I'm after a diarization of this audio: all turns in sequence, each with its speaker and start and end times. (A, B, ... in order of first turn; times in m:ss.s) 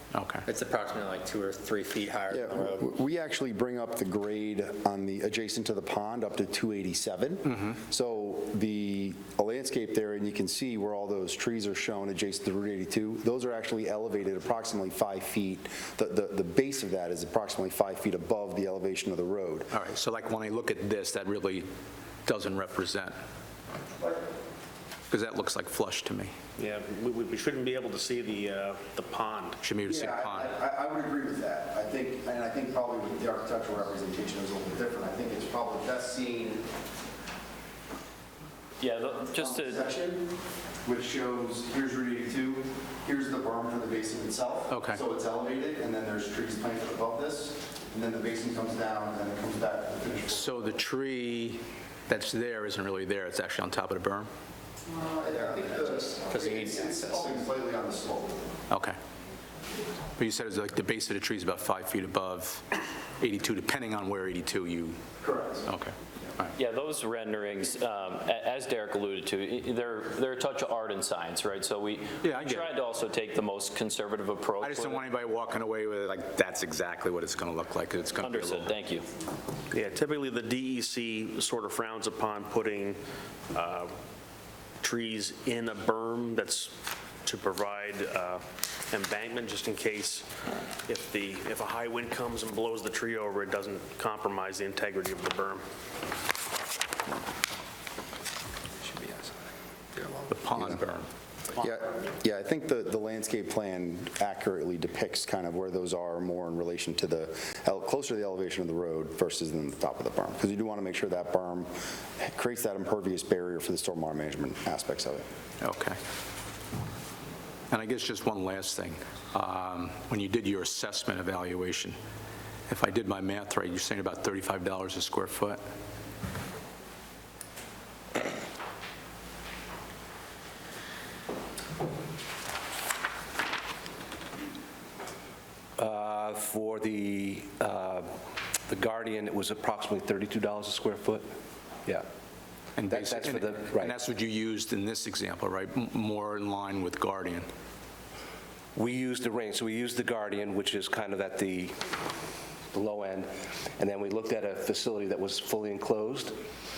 0:00.1-0:00.5 A
0:00.5-0:02.9 B
0:02.3-0:19.7 C
0:07.5-0:07.8 A
0:19.7-0:21.7 A
0:22.3-0:23.2 A
0:25.1-0:26.4 A
0:26.6-0:29.5 D
0:29.6-0:30.5 A
0:29.9-0:36.7 C
0:38.8-0:39.8 E
0:39.2-0:40.3 C
0:40.8-0:50.6 C
0:44.7-0:45.0 A
0:50.3-0:54.3 A
0:54.9-0:58.5 C
0:55.2-0:57.4 B
0:58.7-0:59.0 A
1:00.2-1:05.0 A
1:05.2-1:05.6 C
1:05.7-1:06.6 A
1:06.6-1:15.1 E
1:12.2-1:12.8 A
1:14.6-1:18.8 A
1:18.2-1:19.1 E
1:19.7-1:23.0 D
1:23.5-1:23.9 D
1:24.8-1:30.3 D
1:30.8-1:35.6 D
1:40.3-1:41.1 A
1:41.6-1:55.2 C
1:55.6-1:56.0 A
1:57.7-2:02.0 A
2:02.7-2:05.6 A
2:15.8-2:18.1 F
2:18.7-2:21.3 F
2:22.8-2:27.5 A
2:22.9-2:24.0 F
2:28.8-2:31.8 F
2:32.7-2:36.4 F